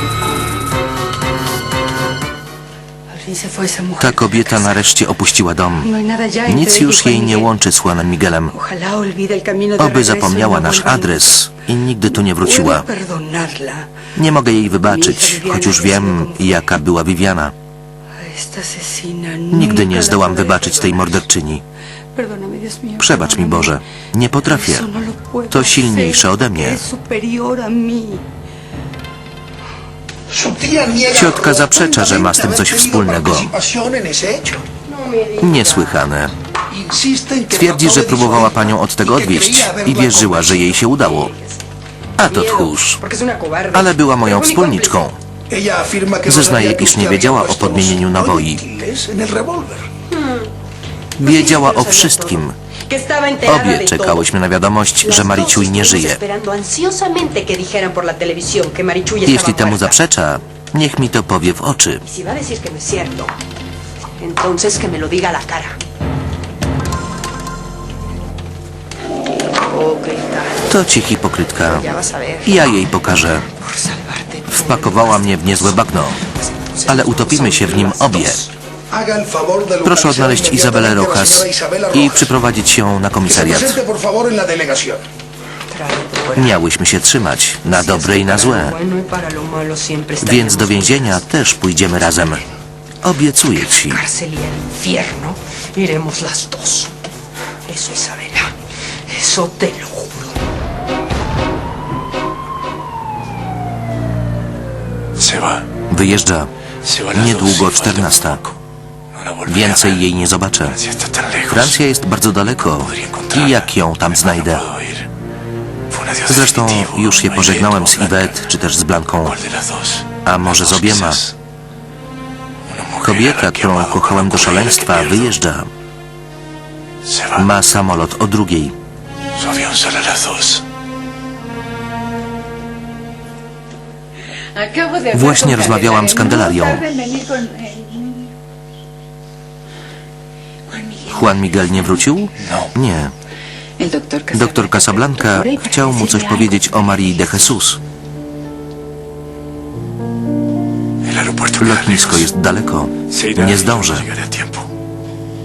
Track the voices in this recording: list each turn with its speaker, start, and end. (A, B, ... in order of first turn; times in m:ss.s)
0:03.1-0:04.8 A
0:04.0-0:05.9 B
0:05.8-0:07.5 A
0:06.5-0:08.5 B
0:08.5-0:11.4 A
0:09.8-0:12.8 B
0:12.2-0:13.9 A
0:14.2-0:17.5 B
0:14.8-0:16.7 A
0:18.2-0:21.1 A
0:19.5-0:21.6 B
0:22.2-0:23.7 A
0:23.0-0:24.9 B
0:24.5-0:28.2 A
0:25.5-0:26.8 B
0:30.3-0:34.7 C
0:31.1-0:33.5 B
0:34.9-0:36.0 A
0:35.4-0:36.3 B
0:36.7-0:40.8 C
0:37.5-0:41.3 B
0:40.8-0:41.6 A
0:42.2-0:43.0 B
0:42.2-0:45.0 A
0:43.7-0:45.2 B
0:45.5-0:49.9 C
0:46.2-0:48.6 B
0:50.1-0:50.5 A
0:51.2-0:52.5 B
0:51.2-0:54.3 A
0:53.4-0:56.2 B
0:55.0-1:00.0 A
0:59.2-1:02.0 B
1:02.0-1:03.3 A
1:04.2-1:05.8 A
1:09.5-1:10.7 A
1:10.7-1:11.9 B
1:11.6-1:12.8 A
1:12.4-1:13.5 B
1:13.6-1:18.5 A
1:14.5-1:16.2 B
1:16.9-1:18.4 B
1:18.9-1:22.3 C
1:19.8-1:23.8 B
1:23.2-1:25.0 C
1:25.7-1:26.6 A
1:26.4-1:28.8 B
1:27.7-1:31.2 A
1:30.2-1:32.4 B
1:33.0-1:34.0 B
1:33.6-1:36.9 A
1:37.6-1:38.5 A
1:39.1-1:40.4 A
1:45.2-1:45.7 D
1:45.9-1:46.5 B
1:46.8-1:48.5 D
1:47.1-1:48.4 B
1:49.2-1:50.0 D
1:49.5-1:50.8 B
1:50.7-1:51.8 D
1:51.5-1:54.7 B
1:52.8-1:55.1 D
1:55.9-1:58.4 D
1:56.3-1:59.4 B
1:59.2-2:01.3 D
2:00.2-2:01.2 B
2:02.7-2:05.3 D
2:03.0-2:05.7 B
2:07.0-2:07.5 D
2:07.4-2:08.7 B
2:09.4-2:10.6 D
2:14.6-2:18.3 E
2:15.1-2:16.8 B
2:20.7-2:21.8 E
2:21.1-2:23.1 B
2:23.8-2:25.4 E
2:24.3-2:27.8 B
2:25.3-2:27.5 A
2:31.0-2:32.3 D
2:31.6-2:34.1 B
2:33.1-2:34.6 D